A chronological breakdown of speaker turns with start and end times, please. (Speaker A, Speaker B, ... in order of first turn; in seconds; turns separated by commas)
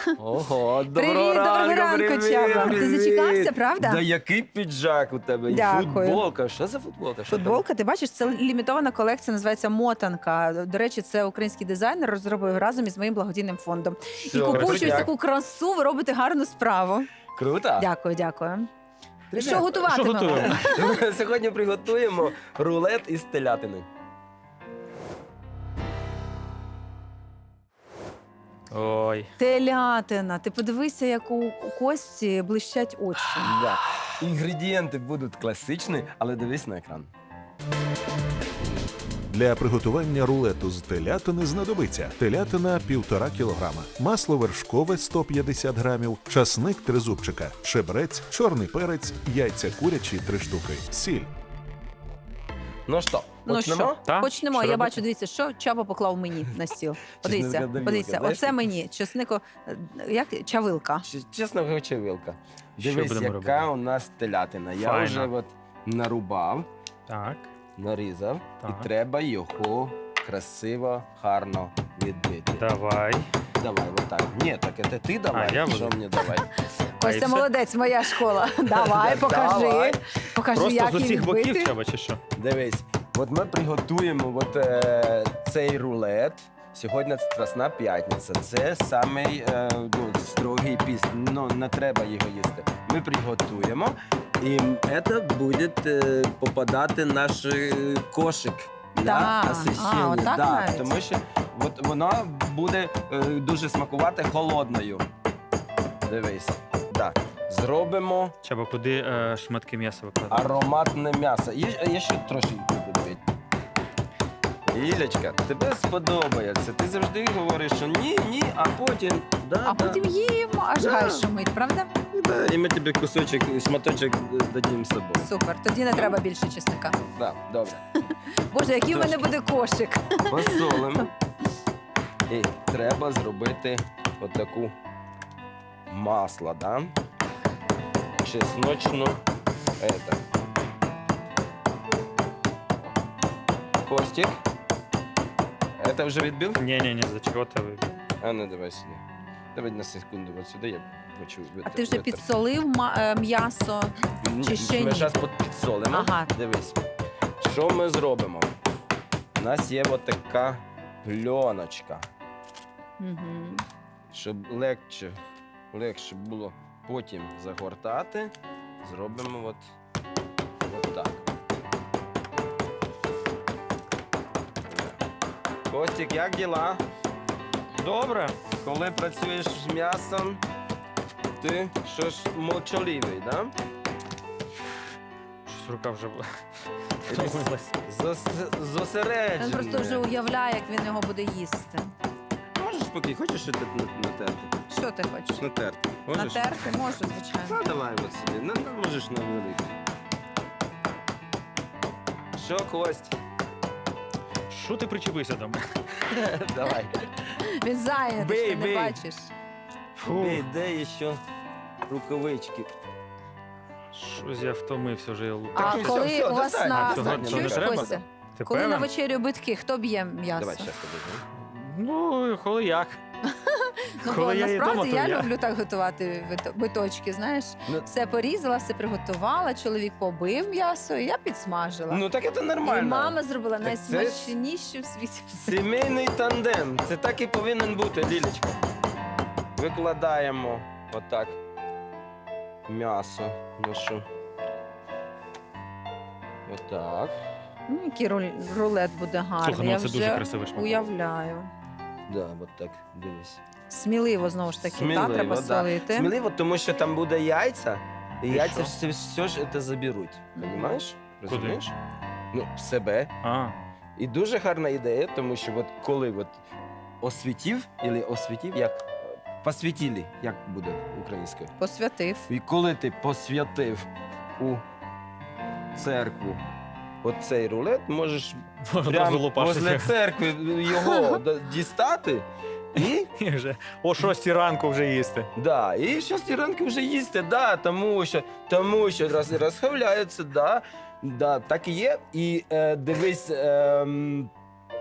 Speaker A: 0.2-7.6, Speaker B: 0.9-4.0, Speaker B: 5.5-6.2, Speaker B: 7.3-17.1, Speaker A: 14.2-15.1, Speaker C: 14.5-15.1, Speaker A: 17.3-17.9, Speaker B: 17.8-18.7, Speaker A: 19.3-23.9, Speaker B: 19.3-20.9, Speaker C: 19.9-20.6, Speaker C: 28.7-29.3, Speaker B: 29.4-33.5, Speaker A: 33.4-37.1, Speaker D: 39.3-51.3, Speaker A: 52.9-54.0, Speaker B: 53.5-61.0, Speaker C: 54.0-55.0, Speaker A: 57.2-58.7, Speaker A: 61.0-66.7, Speaker C: 62.8-63.7, Speaker C: 64.8-65.3, Speaker C: 67.1-67.5, Speaker A: 67.8-72.7, Speaker C: 68.6-68.9, Speaker C: 72.6-73.3, Speaker A: 73.5-76.5, Speaker C: 75.3-76.0, Speaker B: 76.7-81.7, Speaker C: 77.0-77.5, Speaker A: 78.8-80.0, Speaker C: 80.5-82.2, Speaker A: 82.3-105.1, Speaker B: 99.0-100.9, Speaker A: 106.0-108.3, Speaker C: 108.4-110.5, Speaker A: 110.3-113.2, Speaker A: 114.7-120.0, Speaker B: 119.6-121.9, Speaker A: 120.8-121.2, Speaker A: 122.1-125.3, Speaker B: 125.2-127.0, Speaker A: 127.1-127.8, Speaker B: 128.0-131.1, Speaker A: 128.9-129.3, Speaker A: 130.3-131.1, Speaker A: 132.3-134.7, Speaker A: 135.9-136.9, Speaker A: 138.2-139.2, Speaker A: 139.8-140.2, Speaker A: 143.8-144.4, Speaker A: 145.8-146.6, Speaker C: 146.6-147.9, Speaker A: 148.2-149.0, Speaker A: 149.5-152.2, Speaker B: 151.6-155.2, Speaker A: 154.2-156.8, Speaker B: 155.9-156.3, Speaker A: 157.4-158.6, Speaker A: 159.3-162.1, Speaker B: 163.0-163.6, Speaker A: 164.1-165.2, Speaker A: 165.7-169.7, Speaker A: 170.6-171.2, Speaker A: 174.7-175.0, Speaker A: 175.7-176.8, Speaker C: 177.8-178.4, Speaker A: 178.6-180.4, Speaker A: 181.4-183.5, Speaker C: 185.4-186.3, Speaker C: 187.1-187.7, Speaker A: 187.1-190.1, Speaker B: 189.4-191.9, Speaker A: 192.5-194.6, Speaker B: 194.7-195.4, Speaker A: 195.4-196.5, Speaker B: 196.1-197.6, Speaker A: 197.3-199.8, Speaker A: 202.3-203.2, Speaker C: 204.5-205.6, Speaker A: 206.0-207.1, Speaker B: 207.4-209.3, Speaker A: 208.2-209.0, Speaker C: 210.0-210.4, Speaker A: 210.1-211.2, Speaker A: 211.9-212.7, Speaker C: 213.9-216.1, Speaker A: 215.5-218.0, Speaker B: 215.6-220.7, Speaker C: 216.7-218.9, Speaker A: 220.4-221.2, Speaker C: 221.3-223.0, Speaker B: 223.3-232.0, Speaker C: 224.0-225.3, Speaker A: 231.9-234.3, Speaker B: 232.6-235.6, Speaker A: 235.4-238.5, Speaker A: 239.5-241.4, Speaker A: 242.7-244.1, Speaker A: 246.4-247.2, Speaker B: 247.7-251.5, Speaker C: 249.4-250.9, Speaker A: 252.1-253.4, Speaker B: 253.7-256.1, Speaker A: 254.6-261.7, Speaker C: 258.3-258.7, Speaker B: 260.4-260.7, Speaker C: 261.3-261.6, Speaker A: 262.3-263.1, Speaker C: 263.2-263.6, Speaker A: 263.9-266.4, Speaker A: 267.0-271.5, Speaker B: 271.6-272.3, Speaker A: 272.3-274.6, Speaker A: 275.7-276.4, Speaker A: 277.0-283.1, Speaker C: 278.6-279.9, Speaker B: 280.8-281.2, Speaker C: 282.7-285.3, Speaker A: 285.4-294.3